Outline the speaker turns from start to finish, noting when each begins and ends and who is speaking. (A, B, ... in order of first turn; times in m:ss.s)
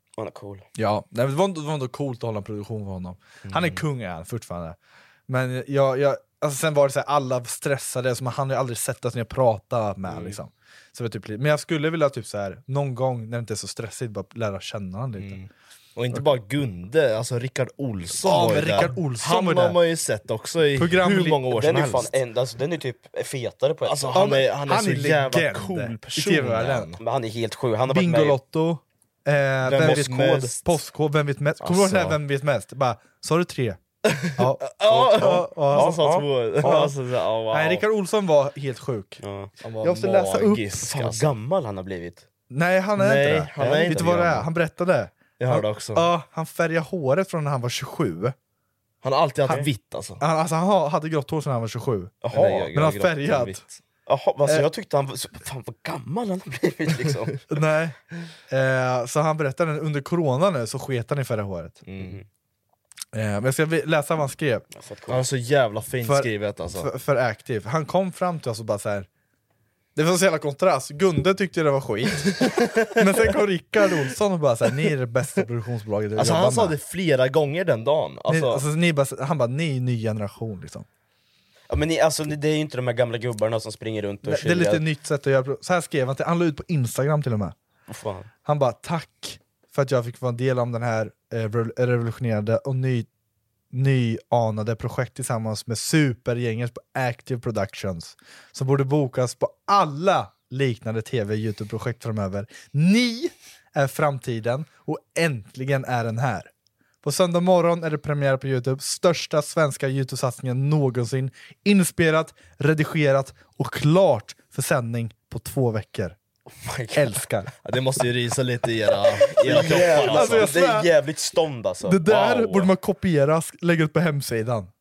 0:00.2-0:00.6 A
0:00.8-0:04.8 B
0:03.4-0:03.8 C
0:05.3-0:15.4 B
0:10.1-0:10.4 C
0:15.2-0:22.1 C
0:18.2-0:19.8 B
0:20.8-0:21.4 B
0:21.5-0:24.2 A
0:23.8-0:27.0 C
0:24.1-0:26.9 B
0:27.0-0:28.4 A
0:27.9-0:33.8 B
0:29.6-0:30.6 C
0:31.6-0:32.2 C
0:34.1-0:37.8 C
0:34.4-0:36.1 B
0:35.7-0:36.9 A
0:37.5-0:39.2 B
0:39.2-0:39.5 A
0:39.6-0:41.3 C
0:39.8-0:40.9 B
0:40.8-0:42.2 A
0:42.5-0:48.3 B
0:43.0-0:44.4 C
0:43.6-0:44.4 A
0:45.4-0:46.1 C
0:49.0-0:50.2 C
0:50.2-0:53.6 B
0:52.2-0:52.7 A
0:52.3-0:53.8 C
0:54.1-0:57.4 A
0:57.5-0:58.0 B
0:58.5-1:01.8 B
1:01.8-1:02.2 C
1:03.1-1:04.6 B
1:04.7-1:05.3 A
1:05.1-1:06.9 C
1:06.0-1:09.1 B
1:10.0-1:16.7 B
1:12.4-1:13.0 C
1:16.2-1:18.6 C
1:18.3-1:20.8 B
1:21.7-1:24.8 A
1:24.2-1:27.5 B
1:27.9-1:28.3 A
1:28.4-1:33.1 B
1:33.7-1:46.5 B
1:47.0-1:56.2 B
1:56.6-1:57.2 A
1:56.9-1:57.5 B
1:57.6-2:00.5 C
1:59.3-2:02.7 A
1:59.5-2:00.9 B
2:01.8-2:04.7 B